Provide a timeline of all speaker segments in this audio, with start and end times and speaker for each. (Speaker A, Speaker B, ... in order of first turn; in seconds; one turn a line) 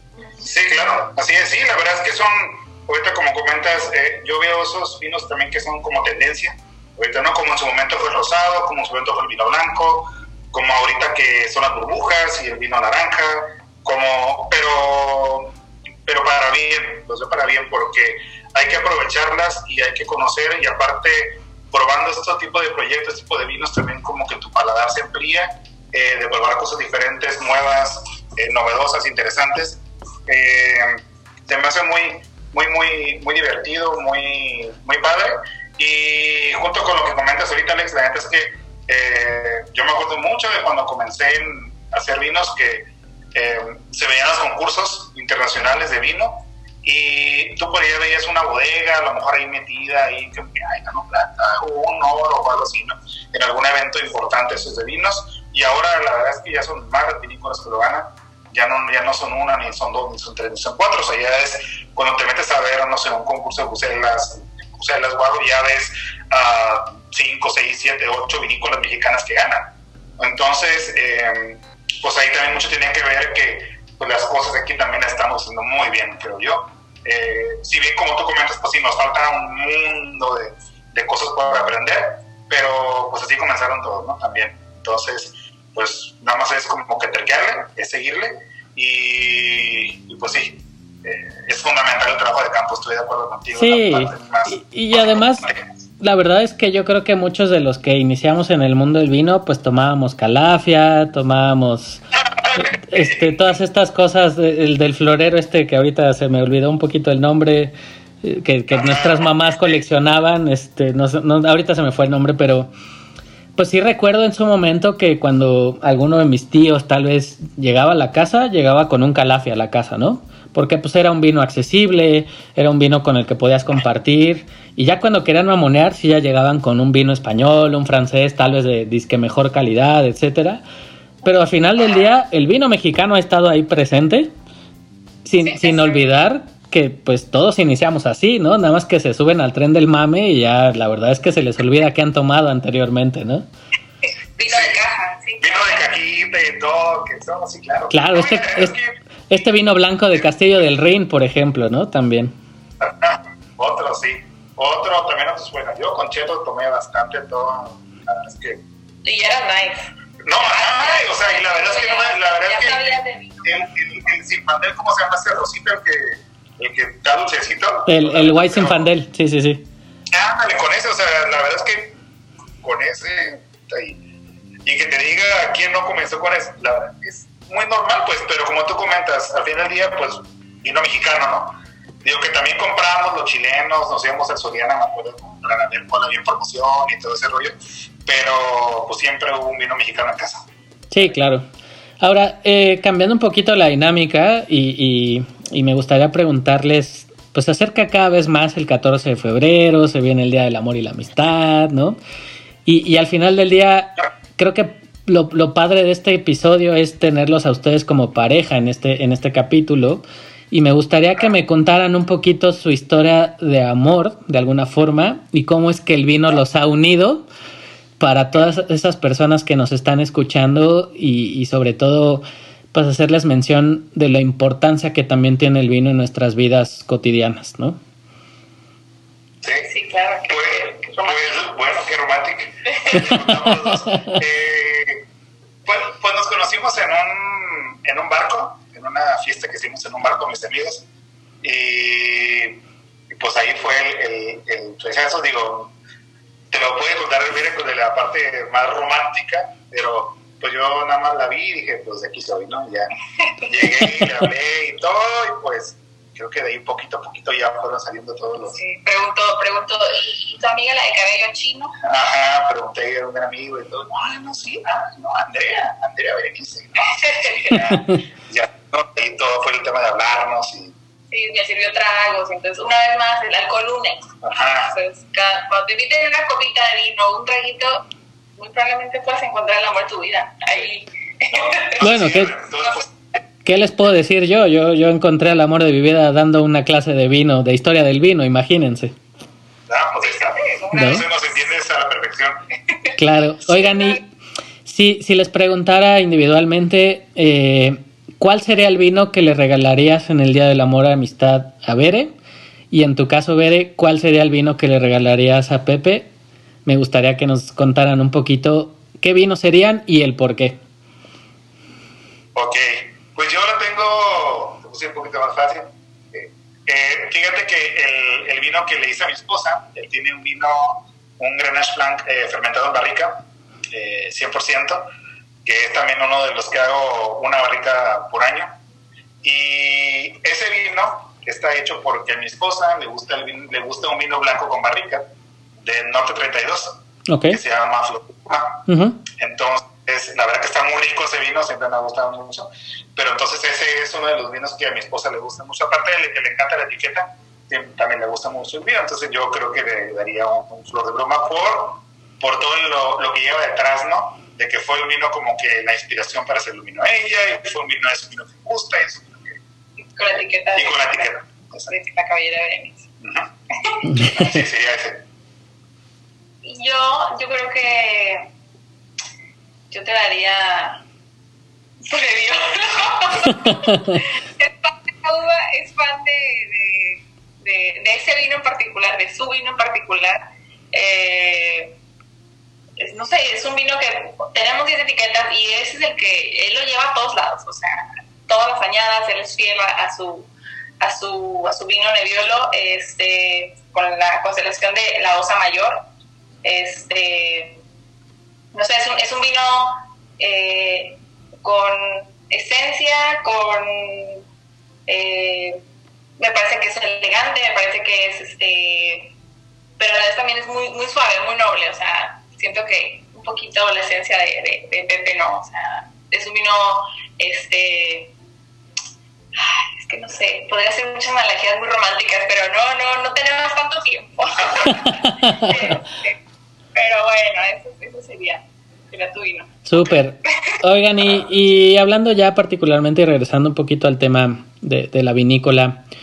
Speaker A: 0.4-15.5
Speaker A: 16.1-95.6
Speaker B: 93.5-102.0
Speaker A: 102.3-103.2
Speaker B: 102.5-112.7
Speaker A: 108.7-109.3
Speaker B: 113.5-130.6
Speaker B: 131.2-134.3
Speaker B: 135.2-143.5
Speaker C: 135.4-136.0
Speaker C: 144.4-145.9
Speaker A: 144.5-144.8
Speaker A: 145.4-149.5
Speaker B: 147.9-148.8
Speaker B: 149.3-152.3
Speaker A: 152.8-158.6
Speaker C: 159.0-163.7
Speaker A: 160.2-168.9
Speaker B: 167.8-169.7
Speaker A: 170.1-172.0
Speaker A: 172.6-174.0
Speaker A: 174.6-190.5
Speaker B: 190.9-191.4
Speaker B: 192.0-202.0
Speaker B: 202.7-217.3
Speaker B: 218.0-227.8
Speaker A: 229.4-229.7
Speaker C: 229.6-231.2
Speaker A: 230.3-235.0
Speaker C: 232.7-233.0
Speaker B: 233.4-233.9
Speaker A: 235.6-240.9
Speaker A: 241.4-245.7
Speaker A: 246.5-258.6
Speaker C: 253.4-254.1
Speaker C: 258.5-261.8
Speaker A: 261.8-270.7
Speaker C: 266.8-267.6
Speaker C: 271.1-277.9
Speaker A: 274.2-274.7
Speaker C: 278.4-281.9
Speaker A: 281.3-282.9
Speaker B: 281.8-282.3
Speaker C: 282.6-282.9
Speaker B: 283.4-288.9
Speaker A: 289.7-292.4
Speaker C: 289.9-291.2
Speaker B: 290.7-291.0
Speaker B: 292.9-294.0
Speaker C: 293.5-294.0
Speaker B: 294.6-302.1
Speaker B: 302.7-306.1
Speaker B: 306.6-310.6
Speaker A: 312.3-324.9
Speaker A: 325.4-328.6
Speaker A: 329.2-359.4
Speaker B: 337.1-337.4
Speaker B: 338.7-339.0
Speaker C: 359.8-362.9
Speaker A: 360.6-361.7
Speaker A: 363.0-363.3
Speaker A: 364.0-365.0
Speaker C: 366.4-368.3
Speaker C: 369.7-370.8
Speaker C: 371.8-381.8
Speaker B: 373.3-374.0
Speaker C: 382.8-395.9
Speaker C: 396.4-397.6
Speaker C: 398.5-404.2
Speaker C: 404.9-405.6
Speaker C: 406.2-409.1
Speaker C: 409.8-418.1
Speaker C: 419.3-426.2
Speaker B: 424.7-425.7
Speaker C: 426.7-429.9
Speaker B: 429.6-435.8